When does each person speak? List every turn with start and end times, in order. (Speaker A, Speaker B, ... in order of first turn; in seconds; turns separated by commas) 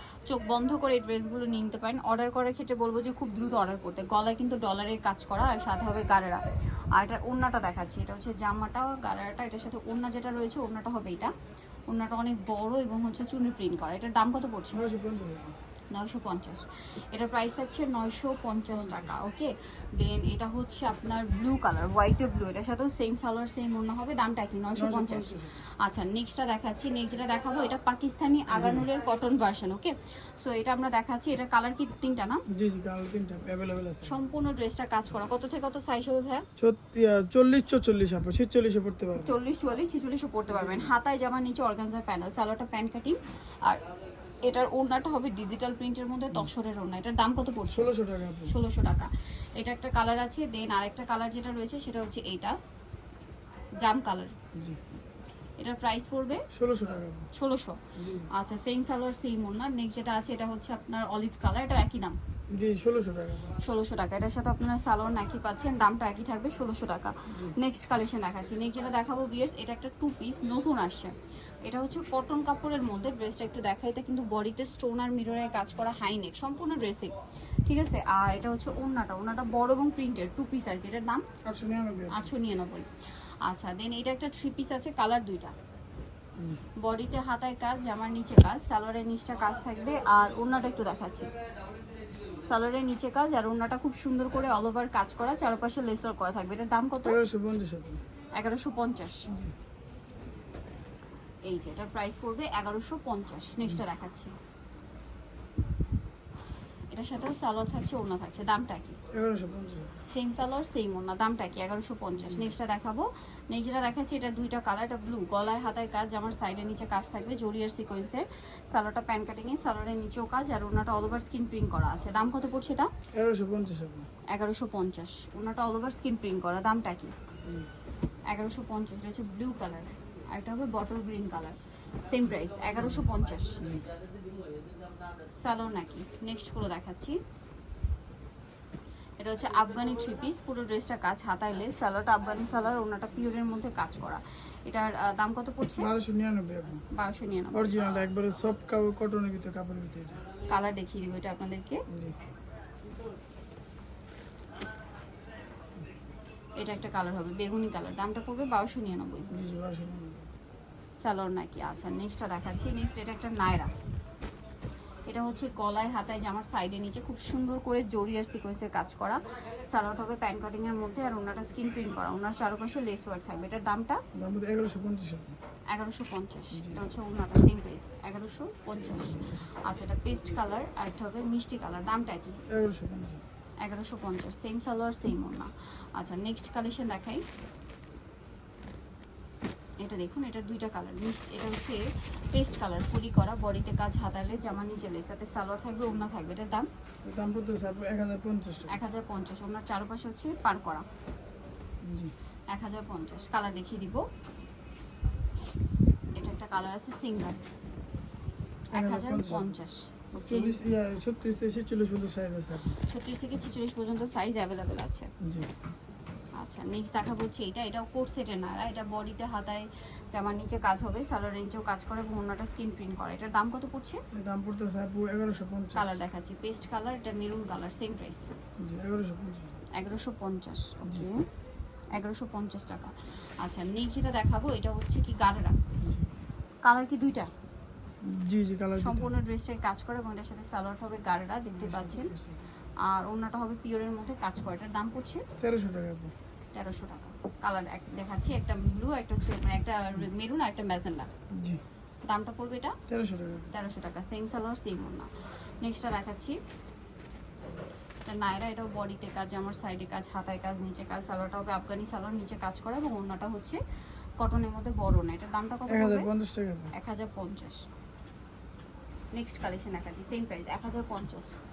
Speaker A: 0.3-6.4, Speaker A: 7.0-11.3, Speaker A: 11.9-14.8, Speaker B: 14.7-15.6, Speaker A: 15.9-32.4, Speaker B: 18.8-19.1, Speaker B: 24.8-25.6, Speaker B: 28.5-28.9, Speaker B: 32.5-34.2, Speaker A: 34.0-36.5, Speaker B: 36.6-39.4, Speaker A: 39.2-43.9, Speaker B: 40.5-40.9, Speaker A: 44.4-47.9, Speaker B: 47.7-48.6, Speaker A: 48.5-52.6, Speaker A: 53.8-54.4, Speaker B: 54.5-54.8, Speaker A: 55.6-56.5, Speaker B: 56.5-57.3, Speaker A: 57.3-62.2, Speaker B: 58.0-58.3, Speaker B: 62.5-63.6, Speaker A: 63.6-77.2, Speaker B: 67.3-67.6, Speaker A: 77.7-81.2, Speaker B: 81.4-82.3, Speaker A: 82.1-82.9, Speaker A: 83.4-85.5, Speaker B: 86.4-86.6, Speaker A: 86.8-91.3, Speaker A: 92.5-97.2, Speaker B: 97.0-98.0, Speaker A: 98.3-99.3, Speaker B: 99.3-99.5, Speaker A: 101.4-104.3, Speaker A: 106.7-109.0, Speaker B: 109.1-110.0, Speaker A: 110.0-122.9, Speaker B: 123.1-124.1, Speaker A: 124.3-127.2, Speaker A: 128.3-133.7, Speaker A: 135.4-137.2, Speaker A: 139.2-145.9, Speaker B: 145.8-146.8, Speaker A: 146.9-147.8, Speaker B: 147.5-150.2, Speaker A: 150.5-151.8, Speaker B: 151.9-152.2, Speaker A: 156.6-159.3, Speaker B: 159.3-160.3, Speaker A: 161.0-163.7, Speaker A: 165.1-174.0, Speaker B: 174.2-175.4, Speaker A: 175.7-182.4, Speaker B: 176.5-176.9, Speaker B: 182.5-183.2, Speaker A: 183.6-187.2, Speaker A: 189.8-196.7, Speaker B: 197.1-198.8, Speaker A: 198.7-200.8, Speaker B: 201.8-202.1, Speaker A: 202.5-204.0, Speaker A: 206.1-207.4, Speaker B: 208.7-209.6, Speaker A: 208.7-210.6, Speaker B: 210.2-212.8, Speaker A: 212.7-215.1, Speaker B: 215.2-215.6, Speaker A: 216.4-224.0, Speaker B: 224.1-226.0, Speaker A: 225.7-228.3, Speaker B: 228.6-229.6, Speaker A: 229.7-231.2, Speaker B: 230.8-231.1, Speaker A: 231.9-235.6, Speaker B: 235.8-236.1, Speaker A: 236.6-237.3, Speaker B: 238.0-239.1, Speaker A: 238.8-242.1, Speaker B: 241.6-242.5, Speaker A: 242.8-245.2, Speaker B: 245.4-246.1, Speaker A: 246.5-251.1, Speaker B: 251.3-251.6, Speaker A: 252.1-252.8, Speaker B: 252.9-253.5, Speaker A: 253.5-255.1, Speaker A: 255.6-256.4, Speaker A: 258.1-263.6, Speaker A: 264.2-266.1, Speaker B: 265.7-266.7, Speaker A: 266.7-267.6, Speaker A: 269.1-271.4